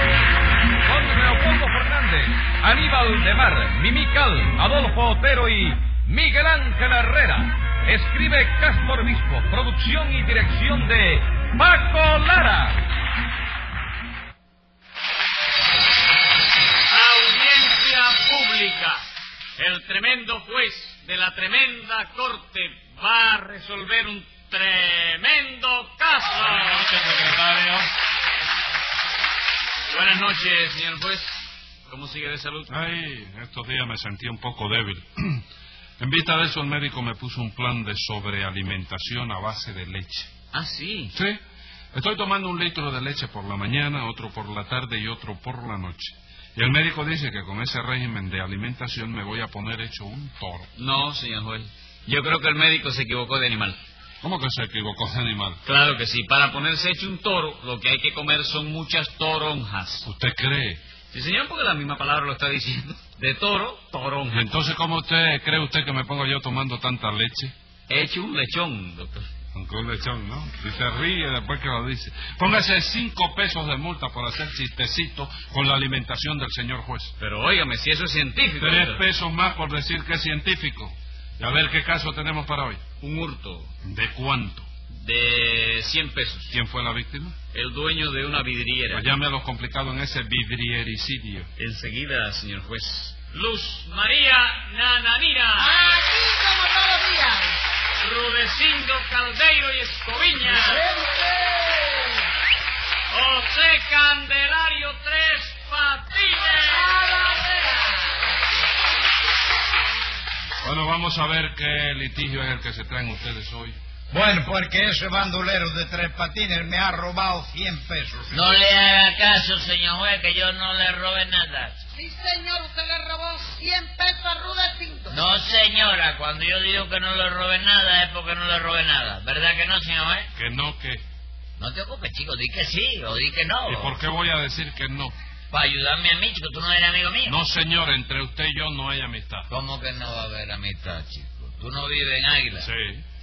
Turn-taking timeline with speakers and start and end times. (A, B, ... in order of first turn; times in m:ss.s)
0:00.8-0:12.8 A
0:17.0-0:19.0 B
0:19.6-0:26.9 B
0:26.4-0:27.8 C
0:29.9-0:32.7 B
0:32.7-0:35.4 C
0:36.0-0:40.3 C
0:40.5-0:41.1 B
0:41.1-0:41.4 C
0:41.9-0:50.7 C
0:50.8-0:53.8 B
0:54.2-0:55.6 C
0:55.6-1:00.0 B
1:00.0-1:00.8 C
1:01.1-1:04.4 B
1:04.3-1:07.5 C
1:07.9-1:09.3 B
1:09.5-1:17.1 C
1:17.2-1:19.0 B
1:18.6-1:22.9 C
1:23.0-1:23.7 B
1:23.8-1:24.7 C
1:25.0-1:26.5 B
1:26.5-1:27.4 C
1:27.5-1:29.0 B
1:28.9-1:31.5 C
1:31.6-1:35.6 B
1:35.5-1:37.6 D
1:38.0-1:40.8 B
1:40.6-1:42.0 D
1:43.1-1:46.8 B
1:50.6-1:53.8 C
1:54.1-1:58.6 E
1:58.3-2:01.8 F
2:01.9-2:05.2 D
2:05.1-2:10.3 F
2:10.3-2:11.0 C
2:11.6-2:14.0 F
2:13.6-2:15.2 C
2:15.5-2:17.4 F
2:17.2-2:19.5 C
2:19.5-2:22.7 F
2:22.6-2:23.0 C